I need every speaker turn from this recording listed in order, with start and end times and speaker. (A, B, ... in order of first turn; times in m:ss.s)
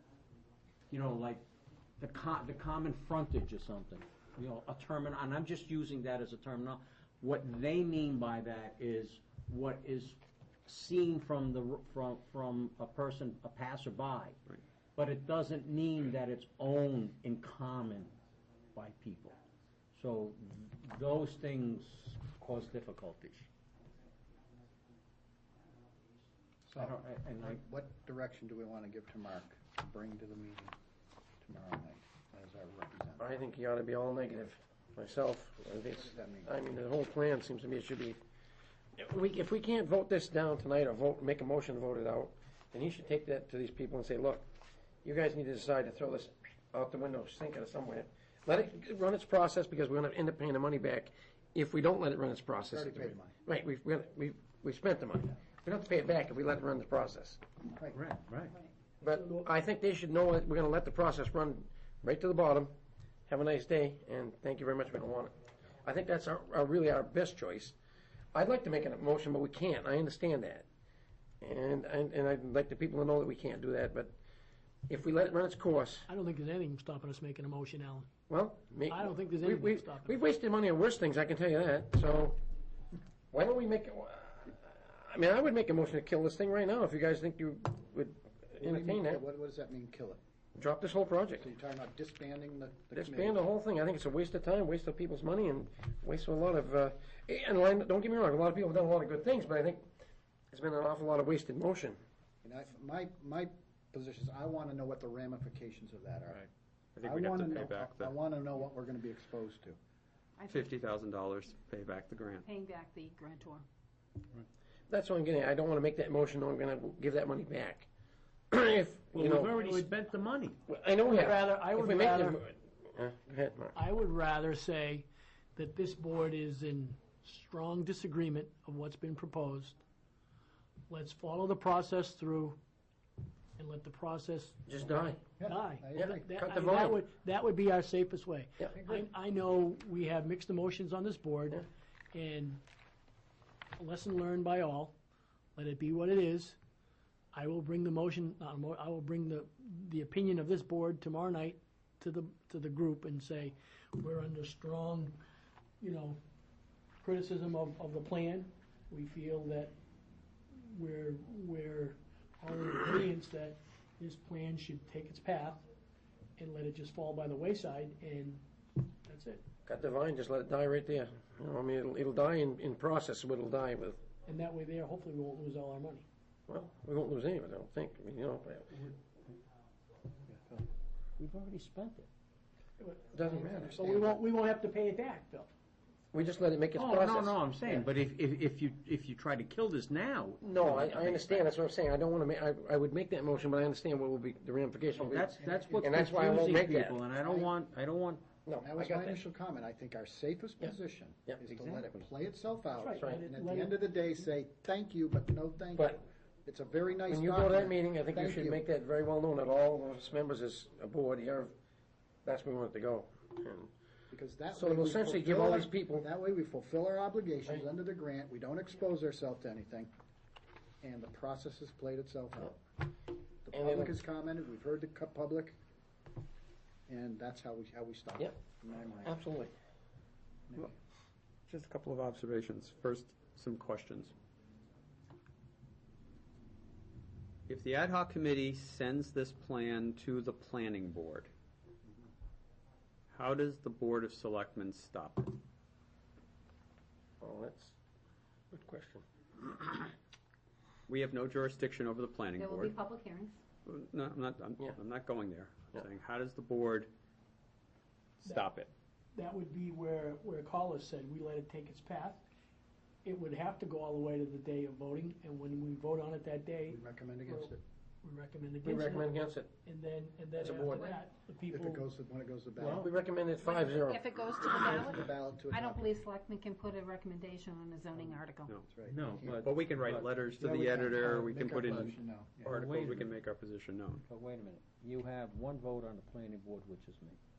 0:00.9-0:01.4 A
0:02.0-0:14.4 A
0:15.0-0:18.1 A
0:18.7-0:19.4 A
0:19.9-0:23.5 A
0:26.7-0:30.7 B
0:26.8-0:27.6 A
0:31.4-0:33.2 B
0:33.2-0:38.2 C
0:36.1-0:36.5 B
0:39.0-0:44.4 C
0:45.0-0:57.4 C
0:52.7-0:53.3 B
0:57.9-0:58.6 A
0:59.0-1:02.7 C
0:59.1-0:59.4 D
1:03.3-1:05.3 C
1:05.8-1:07.7 C
1:08.3-1:10.6 C
1:11.4-1:14.1 C
1:14.9-1:16.1 C
1:16.1-1:18.1 D
1:18.3-1:22.4 C
1:18.9-1:20.2 D
1:23.3-1:29.2 C
1:28.6-1:30.2 B
1:30.6-1:31.5 C
1:31.4-1:33.4 B
1:32.9-1:39.9 C
1:40.5-1:42.0 C
1:42.4-1:46.4 B
1:47.0-1:48.1 E
1:47.0-1:49.8 B
1:50.4-1:50.7 F
1:50.5-1:52.4 E
1:52.4-1:53.6 F
1:54.9-1:57.9 C
1:58.5-1:59.6 C
1:59.1-2:00.5 A
2:00.7-2:03.8 C
2:01.1-2:02.4 D
2:03.7-2:09.8 D
2:10.9-2:12.6 D
2:13.6-2:14.6 D
2:14.6-2:15.2 C
2:15.4-2:16.3 B
2:15.4-2:22.6 D
2:16.0-2:17.0 C
2:23.8-2:24.9 D
2:25.6-2:26.6 D
2:27.3-2:35.2 D
2:35.8-2:36.2 D
2:37.0-2:39.7 D
2:40.5-2:45.6 D
2:46.4-2:48.4 D
2:49.0-2:49.4 D
2:49.6-2:54.0 C
2:54.2-2:56.0 D
2:56.5-2:58.9 C
3:01.2-3:02.1 A
3:02.8-3:03.1 D
3:03.1-3:03.8 C
3:03.2-3:04.2 B
3:03.7-3:05.5 D
3:06.1-3:07.8 C
3:06.8-3:11.5 A
3:10.4-3:17.0 C
3:15.0-3:18.2 A
3:15.4-3:16.4 B
3:17.1-3:17.5 B
3:18.4-3:19.2 C
3:18.6-3:28.6 B
3:21.4-3:22.1 A
3:22.7-3:23.8 D
3:27.1-3:31.5 C
3:32.2-3:33.7 C
3:34.1-3:39.9 B
3:34.5-3:36.0 C
3:40.8-3:42.6 B
3:43.4-3:45.6 B
3:43.5-3:44.0 C
3:46.9-3:49.2 B
3:49.0-3:49.5 C
3:50.5-3:50.7 B
3:51.5-3:54.1 E
3:57.5-4:01.3 E
4:03.1-4:05.4 E
4:07.2-4:07.7 C
4:08.5-4:09.8 C
4:10.9-4:12.7 E
4:12.4-4:13.4 F
4:13.6-4:16.9 E
4:18.2-4:18.7 E
4:19.1-4:22.2 D
4:23.0-4:31.8 D
4:26.7-4:27.6 B
4:28.6-4:29.5 C
4:30.4-4:30.9 C
4:30.7-4:31.0 F
4:31.5-4:33.0 B
4:32.6-4:32.9 A
4:32.8-4:34.0 C
4:33.4-4:38.6 F
4:34.6-4:36.0 B
4:38.7-4:39.6 B
4:38.9-4:40.1 A
4:39.3-4:44.0 E
4:40.4-4:42.5 B
4:42.4-4:43.1 A
4:44.0-4:47.2 A